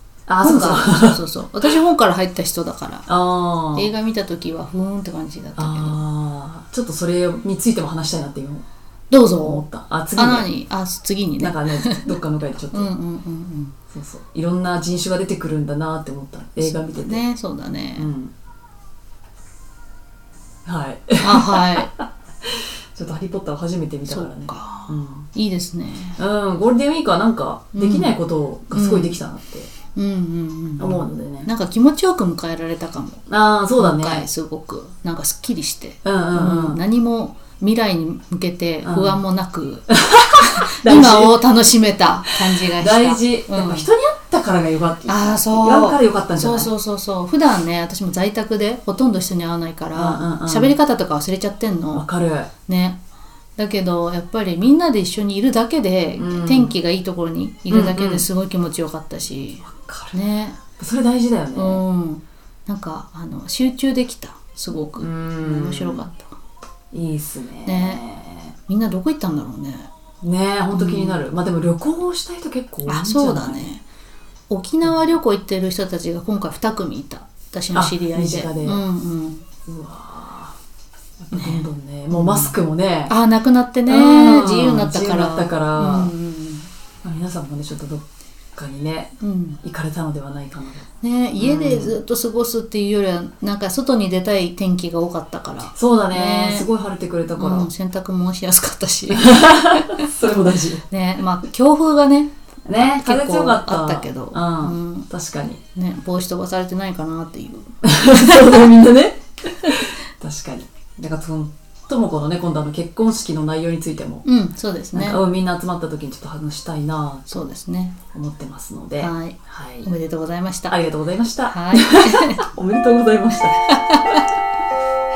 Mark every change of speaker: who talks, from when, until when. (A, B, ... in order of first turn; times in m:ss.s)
0:00.3-0:01.7 A
0:00.4-0:03.1 B
0:03.1-0:03.9 A
0:03.7-0:06.0 B
0:05.6-0:08.6 A
0:09.1-0:09.6 B
0:09.4-0:10.5 A
0:10.2-0:12.2 B
0:11.4-0:12.9 A
0:12.7-0:13.8 B
0:13.9-0:17.2 A
0:16.6-0:18.1 B
0:18.0-0:18.3 A
0:20.7-0:25.3 A
0:21.2-0:21.9 B
0:24.1-0:26.2 B
0:26.2-0:29.7 A
0:27.7-0:28.1 B
0:28.7-0:29.2 B
0:29.9-0:33.2 B
0:30.8-0:31.5 A
0:33.3-0:34.3 A
0:33.8-0:43.9 B
0:36.0-0:36.8 A
0:38.8-0:39.2 A
0:39.9-0:41.4 A
0:42.6-0:46.7 A
0:45.1-0:52.1 B
0:50.0-0:50.7 A
0:51.9-0:52.5 A
0:52.7-0:53.0 B
0:53.6-1:00.6 B
0:56.2-0:56.8 A
0:57.7-0:58.3 A
0:59.7-1:00.2 A
1:00.8-1:01.8 A
1:01.6-1:06.4 B
1:05.0-1:06.0 A
1:06.9-1:08.5 A
1:07.7-1:08.0 B
1:08.7-1:09.9 B
1:10.2-1:13.7 A
1:10.7-1:11.2 B
1:12.9-1:13.8 B
1:14.5-1:19.4 B
1:17.7-1:18.8 A
1:19.7-1:20.6 A
1:21.2-1:23.1 A
1:21.3-1:22.6 B
1:23.1-1:26.7 B
1:23.9-1:26.1 A
1:27.0-1:28.0 A
1:28.6-1:30.9 A
1:29.2-1:29.6 B
1:31.0-1:36.7 B
1:31.4-1:32.0 A
1:35.8-1:37.7 A
1:37.4-1:45.1 B
1:39.1-1:40.8 A
1:42.7-1:45.6 A
1:45.8-1:48.6 B
1:47.8-1:54.2 A
1:54.2-1:55.2 B
1:54.9-1:57.5 A
1:57.3-1:58.0 B
1:58.1-1:59.9 A
1:59.0-2:00.8 B
2:00.7-2:04.2 A
2:01.5-2:02.4 B
2:03.7-2:04.2 B